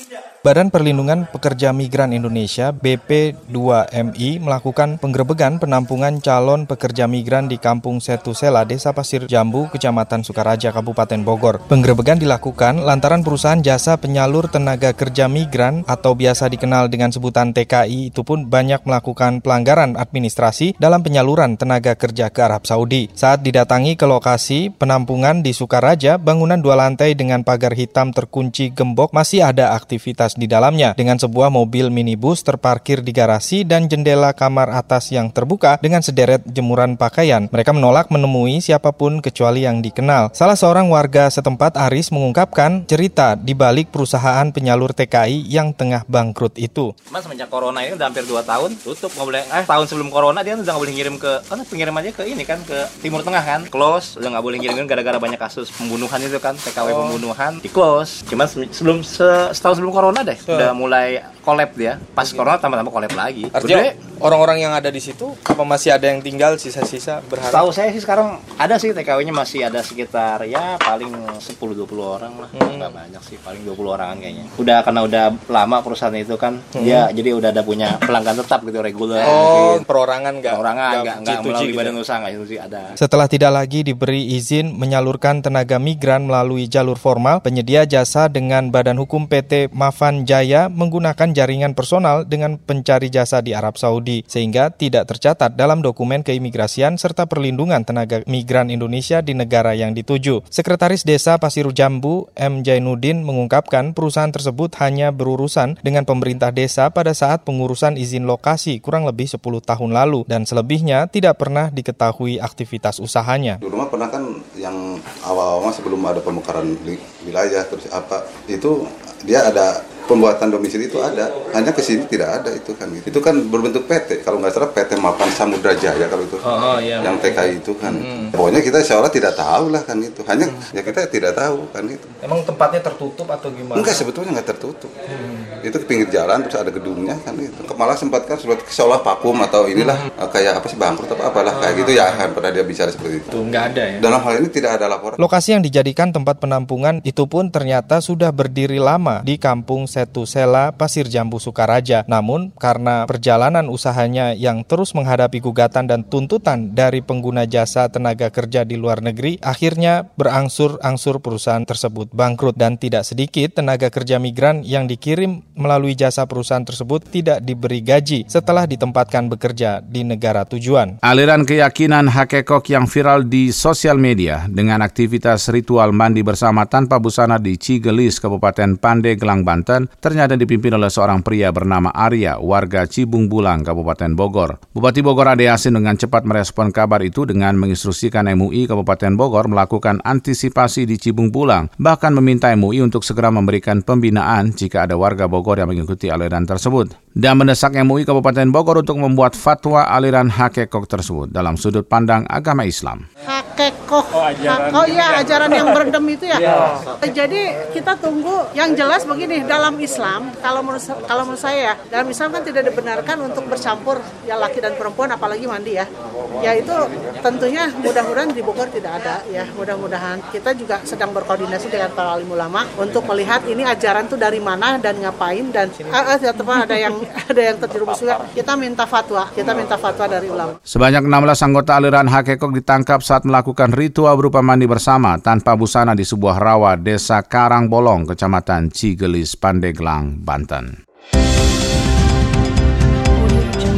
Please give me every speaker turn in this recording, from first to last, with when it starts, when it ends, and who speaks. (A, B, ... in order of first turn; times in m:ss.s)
0:00.4-0:46.9 A
0:47.1-1:03.9 B
1:03.6-1:07.7 A
1:07.5-1:19.9 B
1:16.8-1:17.0 A
1:19.2-1:22.0 A
1:20.5-1:23.0 B
1:23.0-1:53.6 A
1:53.6-2:12.1 C
2:12.2-2:13.9 A
2:13.7-2:14.9 C
2:15.6-2:23.4 C
2:24.0-2:25.2 C
2:25.2-2:51.0 A
2:51.0-3:23.0 D
3:23.3-3:35.9 E
3:36.4-3:50.6 E
3:50.7-4:00.8 D